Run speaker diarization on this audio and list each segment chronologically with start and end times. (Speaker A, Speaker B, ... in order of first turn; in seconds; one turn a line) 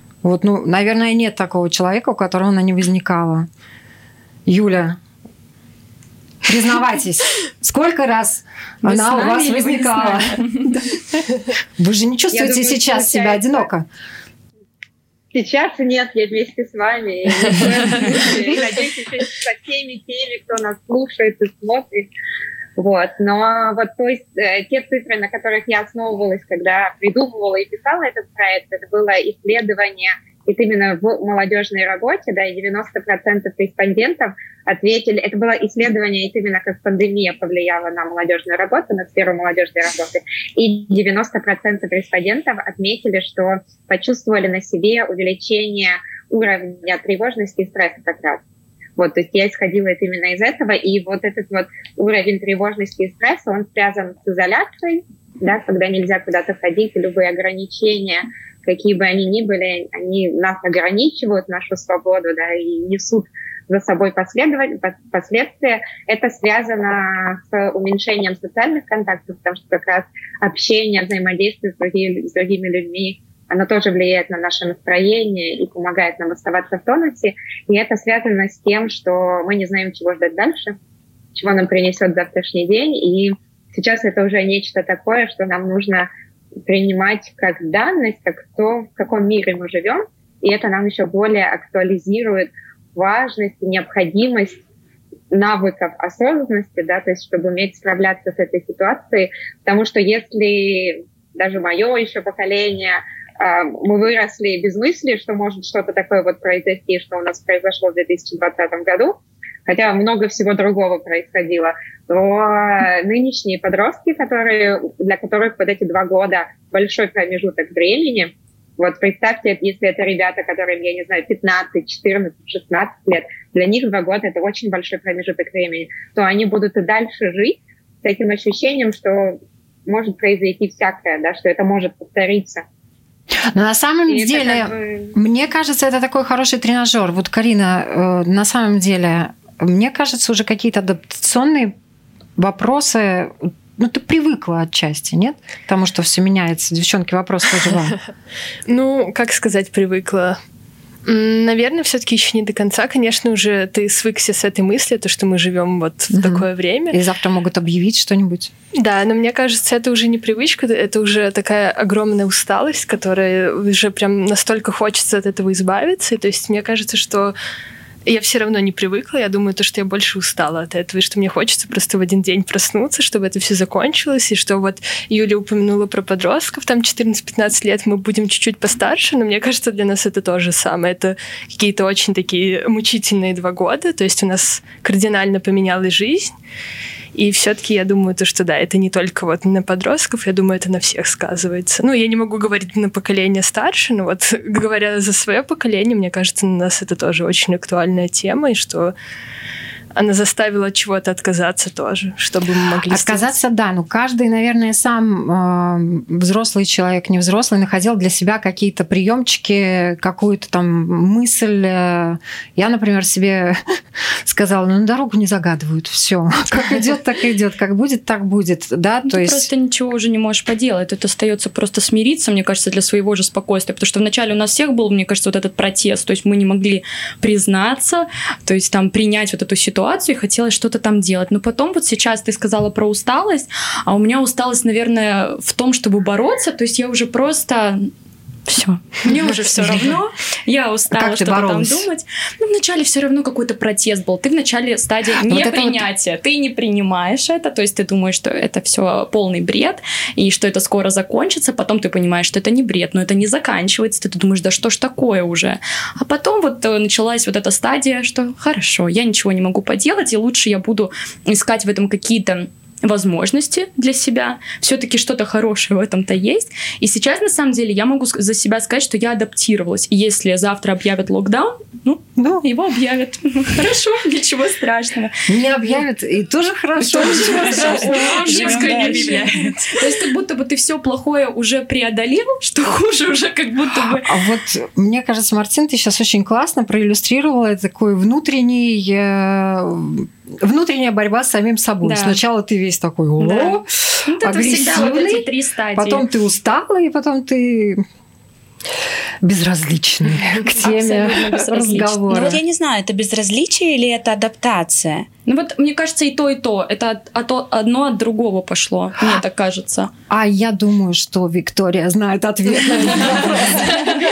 Speaker A: 0.2-3.5
Speaker A: 4.5-5.0
Speaker A: 6.4-11.2
Speaker B: 8.8-10.7
Speaker A: 11.8-13.9
Speaker C: 12.3-13.7
Speaker C: 15.3-22.1
Speaker C: 22.8-48.4
Speaker C: 49.0-80.8
Speaker C: 81.3-86.1
Speaker C: 86.7-94.6
Speaker C: 95.3-109.2
Speaker C: 109.7-132.6
Speaker A: 133.5-141.7
Speaker C: 134.1-135.1
Speaker A: 142.4-147.9
Speaker D: 148.7-150.4
Speaker D: 151.0-157.0
Speaker A: 156.1-158.5
Speaker D: 158.8-167.3
Speaker D: 168.1-186.3
Speaker D: 187.1-198.9
Speaker D: 199.9-203.3
Speaker A: 202.9-213.6
Speaker A: 214.2-219.5
Speaker B: 219.1-237.9
Speaker B: 238.5-275.1
Speaker A: 239.1-240.0
Speaker A: 240.9-241.9
Speaker A: 245.2-245.8
Speaker A: 272.2-272.4
Speaker A: 275.3-279.3
Speaker B: 276.8-284.1
Speaker E: 277.0-279.7
Speaker A: 284.0-297.8
Speaker B: 291.8-292.2
Speaker B: 293.2-296.1
Speaker A: 299.2-302.4
Speaker B: 300.5-302.1
Speaker E: 302.1-305.1
Speaker B: 305.2-309.9
Speaker A: 310.1-313.9